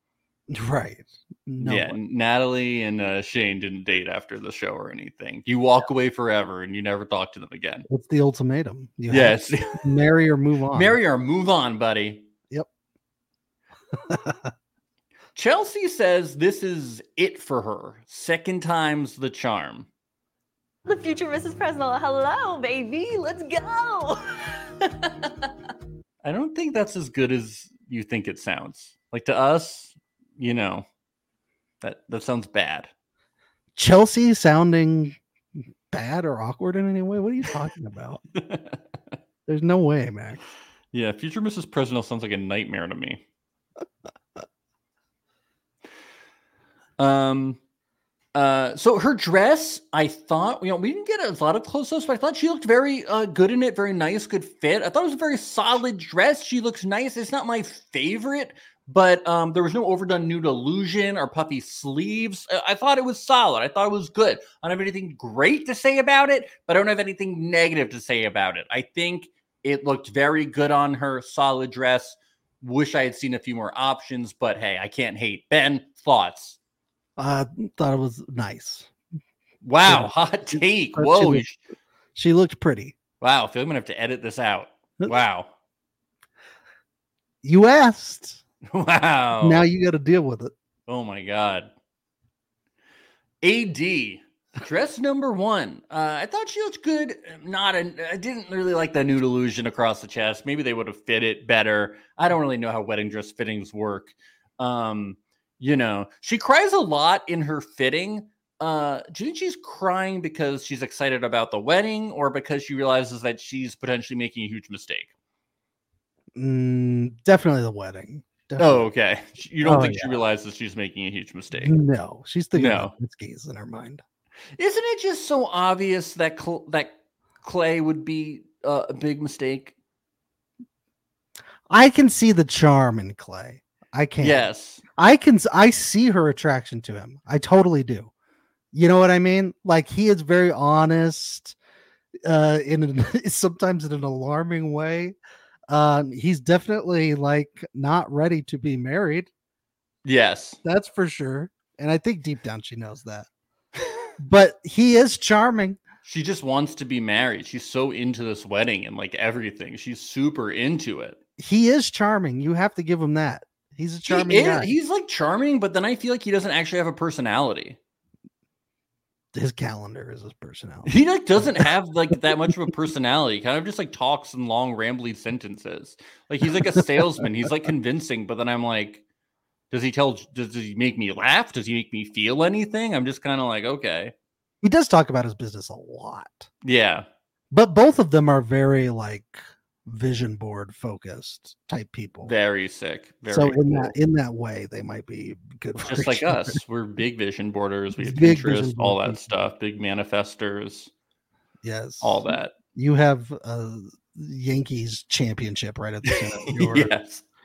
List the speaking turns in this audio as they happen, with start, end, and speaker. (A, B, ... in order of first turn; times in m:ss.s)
0:00.5-0:02.0 A
0:01.6-0:07.9 B
0:07.9-0:11.0 A
0:09.1-0:09.8 B
0:10.7-0:12.2 B
0:14.0-0:14.5 A
0:15.3-0:19.9 B
0:20.8-0:24.2 C
0:26.2-0:30.8 B
0:31.8-0:32.9 B
0:33.8-0:35.2 A
0:35.9-0:38.2 A
0:38.3-0:38.8 B
0:39.5-0:40.4 A
0:40.9-0:43.2 B
0:47.0-0:47.6 B
0:48.3-1:16.6 B
1:17.2-1:18.9 A
1:19.6-1:21.6 B
1:19.8-1:21.4 A
1:22.1-1:23.0 A
1:23.2-1:25.5 B
1:27.4-1:28.4 A
1:28.7-1:29.7 B
1:29.4-1:30.5 A
1:30.9-1:31.7 B
1:33.4-1:55.1 B
1:56.3-1:58.9 A
1:58.6-2:01.7 B
1:59.6-2:00.2 A
2:01.5-2:04.0 A
2:02.5-2:02.9 B
2:04.6-2:09.7 B
2:11.7-2:18.1 A
2:14.2-2:14.8 B
2:18.7-2:21.6 A
2:22.2-2:25.2 A
2:25.7-2:29.3 A
2:30.0-2:30.6 B
2:30.6-2:33.3 A
2:34.2-2:35.8 A
2:36.0-2:41.2 B
2:41.4-2:44.7 A
2:44.1-2:47.8 B
2:49.3-2:51.7 A
2:50.8-2:59.0 B
2:56.6-2:57.2 A
2:59.7-3:04.1 B
3:04.6-3:06.5 A
3:06.6-3:07.0 B
3:07.5-3:12.3 A
3:12.2-3:13.9 B
3:13.3-3:16.6 A
3:15.8-3:20.9 B
3:18.0-3:19.4 A
3:21.6-3:26.9 A
3:22.0-3:22.5 B
3:26.1-3:27.2 B